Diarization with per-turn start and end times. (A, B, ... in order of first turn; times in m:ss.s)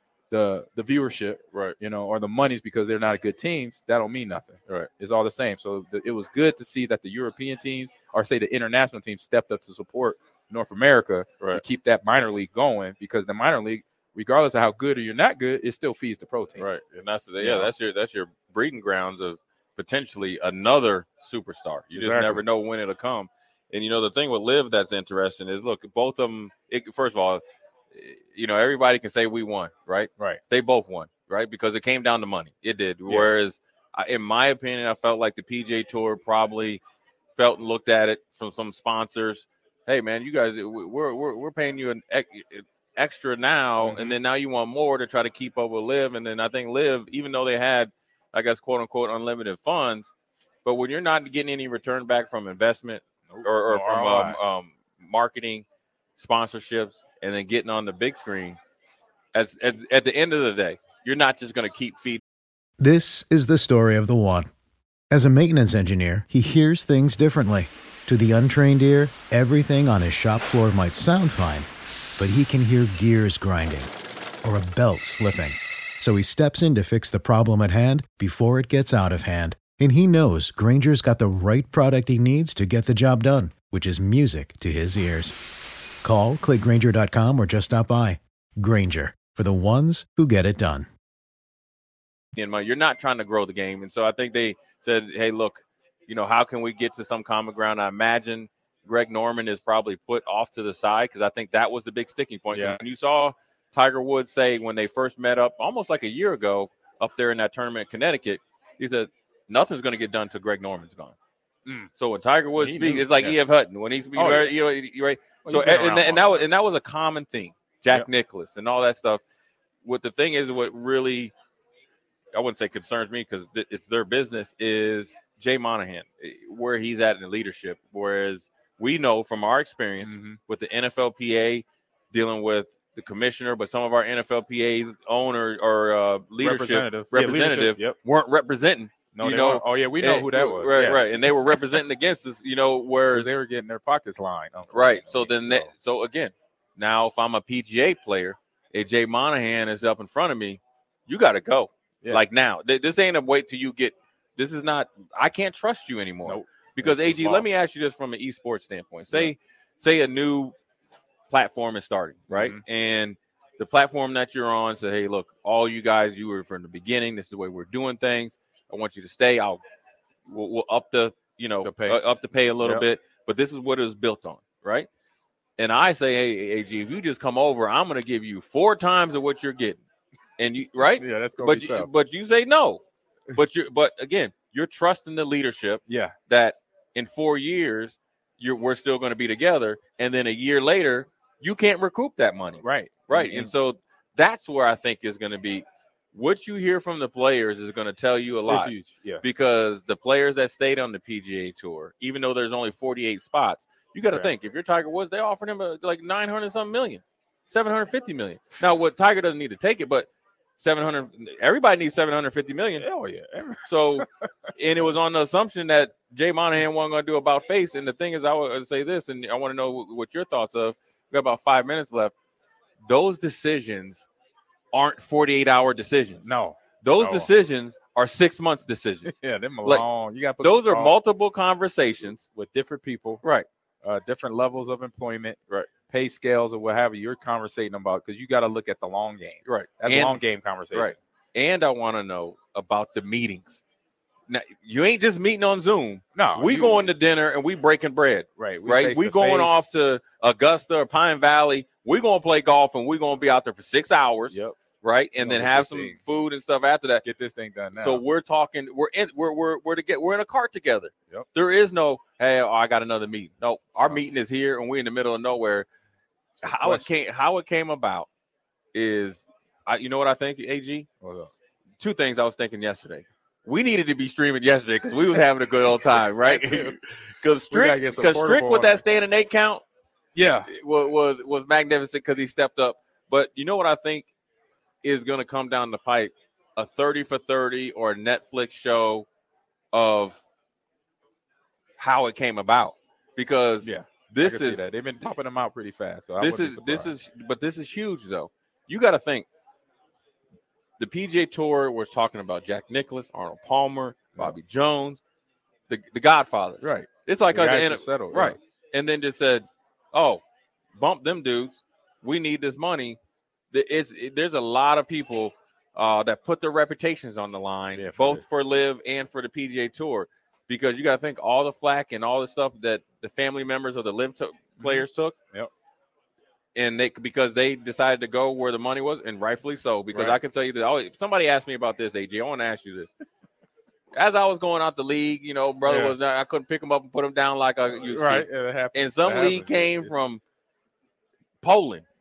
0:00.3-0:16.7 A
0:16.6-0:27.4 B
0:17.4-0:17.7 A
0:22.0-0:22.4 A
0:27.9-0:36.8 B
0:37.4-0:50.1 B
0:43.8-0:44.2 A
0:50.6-0:55.6 B
0:53.3-0:54.4 A
0:56.2-0:58.6 B
0:59.3-1:02.2 B
1:02.8-1:04.5 C
1:05.1-1:11.7 C
1:12.2-1:13.9 C
1:14.4-1:25.4 C
1:26.0-1:30.9 C
1:32.4-1:51.2 B
1:42.5-1:42.8 A
1:51.6-1:51.9 A
1:52.0-1:59.2 B
1:52.6-1:53.4 A
1:54.1-1:54.6 A
1:55.4-1:56.5 A
1:59.8-2:01.3 B
2:02.3-2:23.3 B
2:10.0-2:10.4 A
2:16.4-2:18.0 A
2:19.1-2:21.8 A
2:23.1-2:25.7 A
2:24.7-2:40.6 B
2:36.2-2:37.5 A
2:41.3-2:49.6 B
2:42.3-2:42.6 A
2:50.3-2:54.9 B
2:51.6-2:52.0 A
2:52.6-2:52.9 A
2:55.6-2:59.8 B
3:00.4-3:02.8 B
3:00.8-3:01.9 A
3:03.4-3:32.9 B
3:05.9-3:06.2 A
3:12.6-3:13.5 A
3:18.5-3:19.2 A
3:32.8-3:34.5 A
3:33.7-3:42.1 B
3:42.8-3:44.1 B
3:44.7-3:46.3 B
3:46.2-3:47.3 A
3:46.8-3:49.1 B
3:49.0-3:51.0 A
3:50.4-3:52.2 B
3:52.3-3:53.2 A
3:53.8-4:01.0 A
3:59.4-4:03.6 B
4:04.3-4:17.0 B
4:06.1-4:06.9 A
4:08.4-4:09.8 A
4:14.3-4:14.6 A
4:15.2-4:16.0 A
4:17.0-4:18.0 A
4:17.8-4:25.7 B
4:26.4-4:28.1 B
4:26.5-4:26.9 A
4:28.7-4:30.9 B
4:31.0-4:31.3 A
4:31.8-4:39.6 B
4:36.0-4:36.8 A
4:37.5-4:38.8 A
4:40.2-4:40.5 A
4:40.5-4:44.1 B
4:44.8-4:49.1 B
4:49.7-4:50.2 B
4:51.8-4:55.1 B
4:53.6-4:56.9 A
4:56.2-4:59.3 B
5:00.8-5:05.0 B
5:05.7-5:10.2 B
5:06.6-5:08.4 A
5:10.8-5:13.0 B
5:13.5-5:25.2 B
5:17.7-5:18.2 A
5:24.6-5:25.5 A
5:26.6-5:32.9 B
5:29.9-5:30.2 A
5:33.9-5:40.2 B
5:35.6-5:36.0 A
5:37.7-5:39.9 A
5:41.4-5:41.8 B